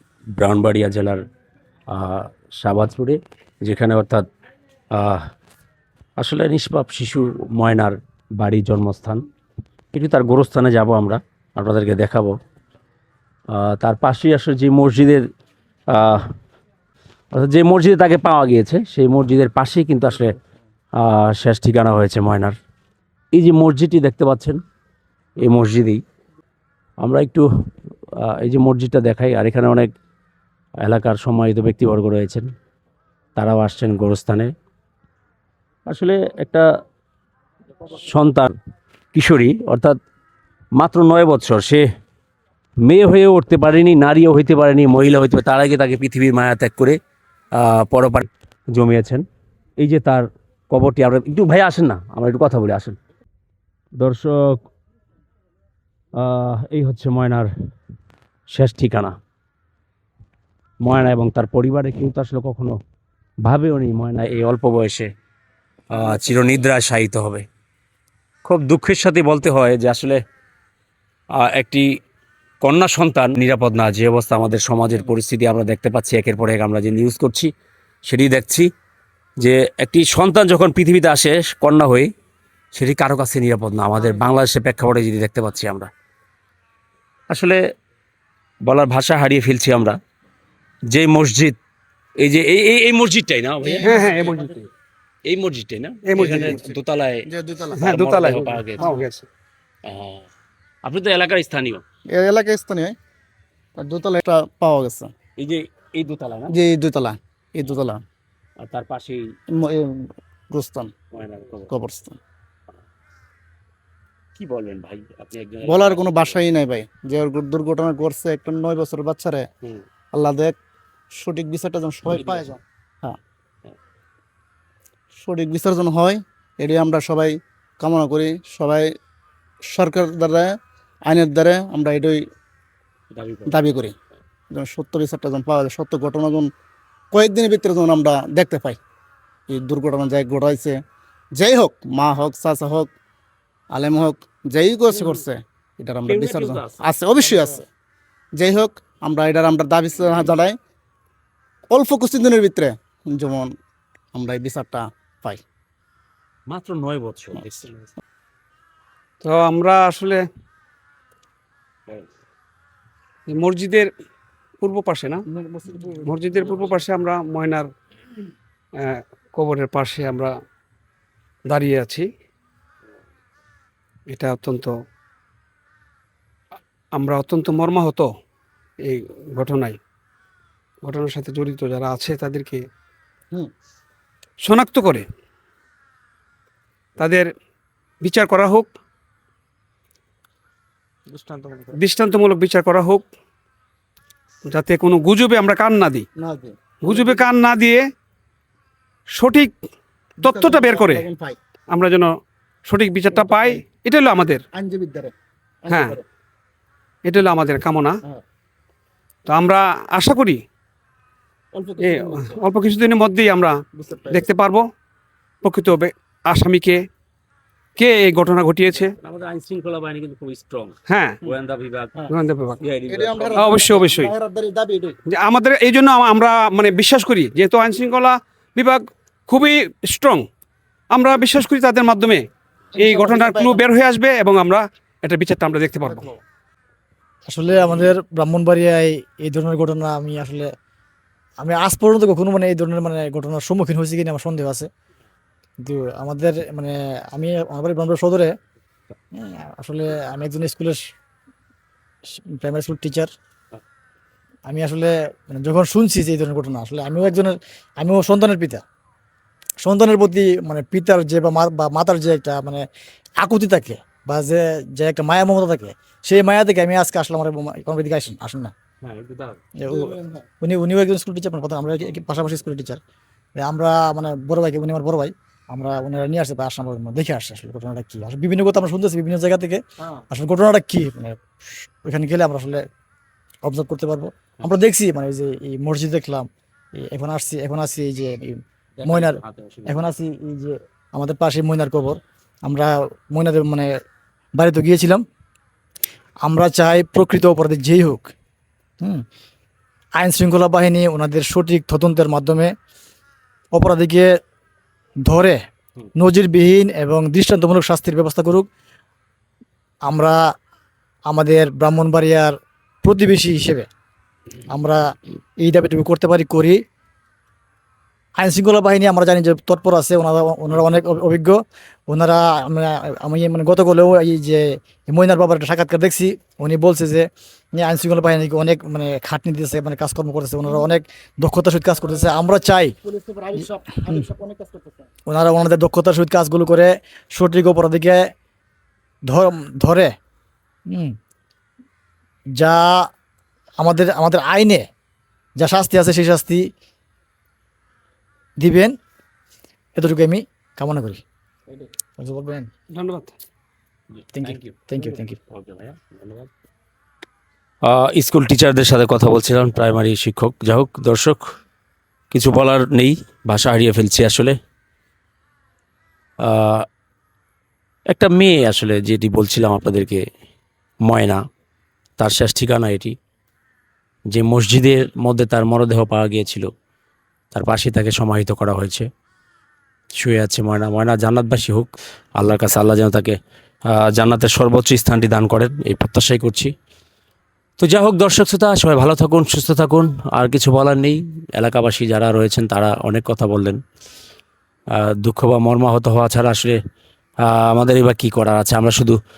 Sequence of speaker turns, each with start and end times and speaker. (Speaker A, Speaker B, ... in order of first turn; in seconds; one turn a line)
Speaker A: 0.3-1.2
Speaker A: 1.9-4.3
Speaker A: 4.9-5.3
Speaker A: 6.2-9.2
Speaker A: 9.9-12.3
Speaker A: 13.5-15.3
Speaker A: 15.9-16.3
Speaker A: 17.3-20.4
Speaker A: 21.0-22.5
Speaker A: 23.3-24.6
Speaker A: 25.4-26.0
Speaker A: 27.0-27.4
Speaker A: 28.2-29.9
Speaker A: 30.8-32.5
Speaker A: 33.4-34.5
Speaker A: 35.9-36.6
Speaker A: 37.9-38.5
Speaker A: 39.1-39.9
Speaker A: 40.8-41.9
Speaker A: 42.8-47.0
Speaker A: 47.5-49.2
Speaker A: 49.8-53.0
Speaker A: 54.0-54.6
Speaker A: 56.2-57.5
Speaker A: 58.5-59.1
Speaker A: 60.8-62.8
Speaker A: 63.4-65.1
Speaker A: 65.9-67.4
Speaker A: 68.4-70.2
Speaker A: 71.3-71.8
Speaker A: 72.6-77.5
Speaker A: 78.0-78.7
Speaker A: 79.4-82.1
Speaker A: 82.7-85.9
Speaker A: 87.3-87.6
Speaker A: 88.6-90.0
Speaker A: 90.9-91.6
Speaker A: 92.2-94.3
Speaker B: 93.6-94.5
Speaker C: 93.8-94.7
Speaker A: 95.2-97.2
Speaker C: 96.1-96.6
Speaker B: 97.3-99.0
Speaker C: 97.8-99.2
Speaker A: 97.8-99.0
Speaker A: 99.8-100.2
Speaker A: 100.8-101.8
Speaker B: 102.1-102.9
Speaker B: 103.8-105.1
Speaker A: 105.4-106.5
Speaker B: 106.5-108.0
Speaker A: 108.6-109.2
Speaker B: 109.5-110.9
Speaker A: 111.1-111.7
Speaker B: 111.7-112.2
Speaker A: 114.3-116.4
Speaker B: 115.6-119.4
Speaker B: 120.1-120.5
Speaker B: 121.1-123.2
Speaker A: 122.1-122.5
Speaker B: 125.2-128.9
Speaker B: 129.7-130.5
Speaker B: 131.1-132.2
Speaker A: 133.1-133.7
Speaker B: 133.5-133.9
Speaker B: 134.5-136.5
Speaker B: 137.1-138.8
Speaker B: 139.5-140.8
Speaker B: 141.3-142.9
Speaker B: 143.7-147.7
Speaker A: 144.9-145.2
Speaker A: 146.1-147.5
Speaker B: 148.3-150.6
Speaker B: 151.7-153.5
Speaker B: 154.1-155.4
Speaker A: 156.5-157.9
Speaker C: 159.2-160.2
Speaker C: 163.3-163.9
Speaker C: 164.6-165.2
Speaker B: 165.3-166.1
Speaker C: 166.1-167.7
Speaker C: 168.8-170.3
Speaker C: 171.5-172.1
Speaker C: 174.1-174.7
Speaker C: 176.9-178.1
Speaker C: 178.8-179.8
Speaker C: 180.8-182.6
Speaker C: 184.4-185.1
Speaker C: 187.0-187.3
Speaker C: 188.0-188.7
Speaker B: 191.1-191.8
Speaker C: 191.8-193.1
Speaker C: 194.4-196.1
Speaker B: 196.2-197.3
Speaker C: 196.8-197.8
Speaker C: 199.1-199.5
Speaker C: 200.2-201.1
Speaker B: 200.2-201.4
Speaker C: 201.7-202.1
Speaker C: 202.7-204.4
Speaker B: 203.1-203.6
Speaker B: 204.5-206.0
Speaker C: 205.7-205.9
Speaker C: 207.1-207.9
Speaker C: 209.3-210.4
Speaker B: 211.5-212.4
Speaker C: 211.8-213.6
Speaker B: 213.7-214.2
Speaker C: 214.1-214.6
Speaker C: 215.4-216.8
Speaker C: 217.8-218.9
Speaker A: 219.0-222.1
Speaker C: 220.9-221.2
Speaker C: 222.1-222.6
Speaker A: 222.6-223.5
Speaker B: 222.9-224.9
Speaker C: 223.3-224.1
Speaker C: 225.1-230.2
Speaker C: 230.9-236.1
Speaker B: 232.7-233.6
Speaker D: 237.3-240.5
Speaker D: 241.4-244.7
Speaker D: 245.6-248.3
Speaker D: 249.1-250.8
Speaker D: 252.3-253.1
Speaker D: 254.5-258.6
Speaker D: 259.6-262.6
Speaker D: 263.2-268.5
Speaker A: 268.8-269.4
Speaker D: 269.6-272.8
Speaker B: 269.7-270.2
Speaker D: 273.4-281.2
Speaker D: 281.8-282.6
Speaker D: 283.4-293.7
Speaker A: 288.8-289.8
Speaker D: 294.4-295.0
Speaker D: 296.2-298.1
Speaker D: 300.0-302.5
Speaker D: 303.5-304.1
Speaker D: 305.1-305.4
Speaker D: 305.9-308.5
Speaker D: 309.9-310.2
Speaker D: 311.1-313.7
Speaker D: 314.5-316.6
Speaker D: 318.2-332.7
Speaker B: 331.8-334.9
Speaker D: 335.1-338.1
Speaker D: 339.1-339.9
Speaker D: 340.7-340.9
Speaker D: 342.4-342.9
Speaker D: 343.6-344.7
Speaker D: 345.4-346.4
Speaker D: 348.4-348.7
Speaker D: 349.7-351.0
Speaker D: 352.0-352.5
Speaker C: 352.7-353.1
Speaker D: 354.1-355.2
Speaker A: 354.2-356.3
Speaker A: 357.6-361.2
Speaker A: 362.1-364.3
Speaker A: 366.2-366.6
Speaker A: 367.9-370.0
Speaker A: 370.8-371.2
Speaker A: 372.0-372.9
Speaker A: 374.1-376.5
Speaker A: 377.3-378.9
Speaker A: 380.0-383.2
Speaker A: 383.7-386.5
Speaker A: 387.6-393.6
Speaker A: 394.8-396.6
Speaker A: 397.2-399.0